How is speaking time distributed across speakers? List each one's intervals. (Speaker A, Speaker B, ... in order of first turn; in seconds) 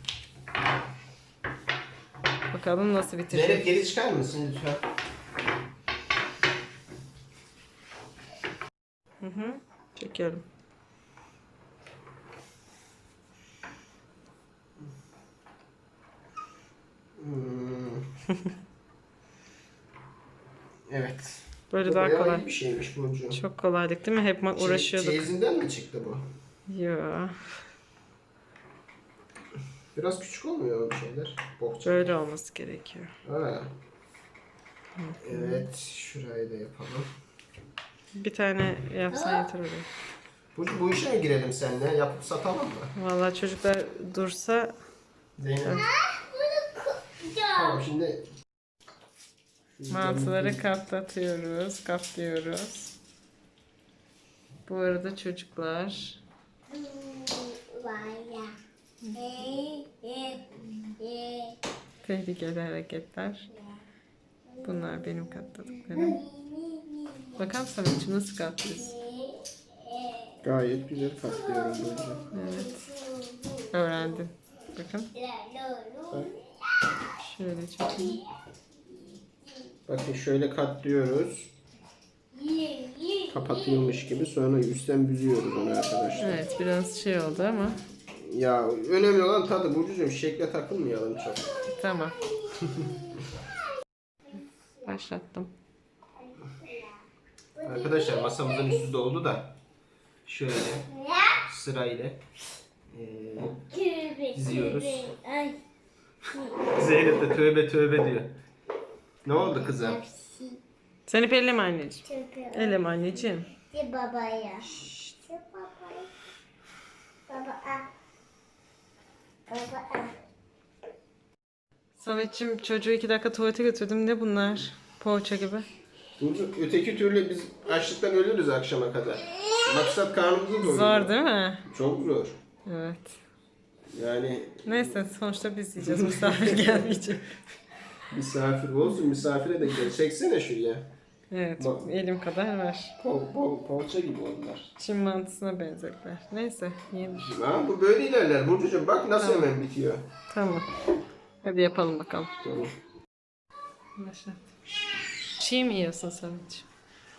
Speaker A: 2.5-3.7, 9.2-10.4, 21.7-22.5, 23.3-25.3, 26.7-27.4, 31.8-33.1, 35.0-35.7, 38.1-39.9, 43.0-44.8, 45.6-45.9, 49.9-52.9, 54.7-56.2, 59.0-59.4, 62.0-63.5, 64.6-66.3, 67.3-69.0, 72.3-72.9, 73.7-75.1, 77.2-78.2, 86.2-87.8, 91.7-92.2, 94.8-95.5, 111.1-113.5, 122.0-125.7, 130.6-131.6, 132.7-133.1, 134.7-137.3, 141.3-142.9, 144.8-147.3, 149.2-149.5, 150.3-150.7, 151.4-152.3, 154.0-154.4, 155.4-156.7
Speaker B: 3.3-4.8, 17.2-18.1, 20.9-23.4, 24.6-26.2, 29.9-32.1, 33.2-33.7, 35.2-37.1, 40.5-42.9, 45.4-45.9, 47.5-48.2, 49.8-50.6, 70.4-72.3, 79.9-81.5, 83.3-86.4, 88.1-91.5, 97.6-99.6, 100.2-100.9, 101.4-102.2, 102.9-103.6, 104.3-105.1, 106.7-108.4, 109.2-110.0, 126.2-132.4, 133.9-135.0, 135.8-136.9, 138.1-140.9, 141.6-141.9, 143.0-144.7, 147.0-150.1, 152.4-152.7
Speaker C: 39.1-39.5, 46.0-47.8, 56.7-58.6, 59.2-61.6, 65.9-67.3, 68.9-70.3, 71.5-73.7, 75.2-76.3, 82.3-83.3, 96.4-96.9, 97.7-98.7, 100.9-101.4, 103.7-105.6, 106.3-106.7, 109.4-110.6, 112.1-112.7, 113.7-116.1, 117.3-117.9, 119.5-120.2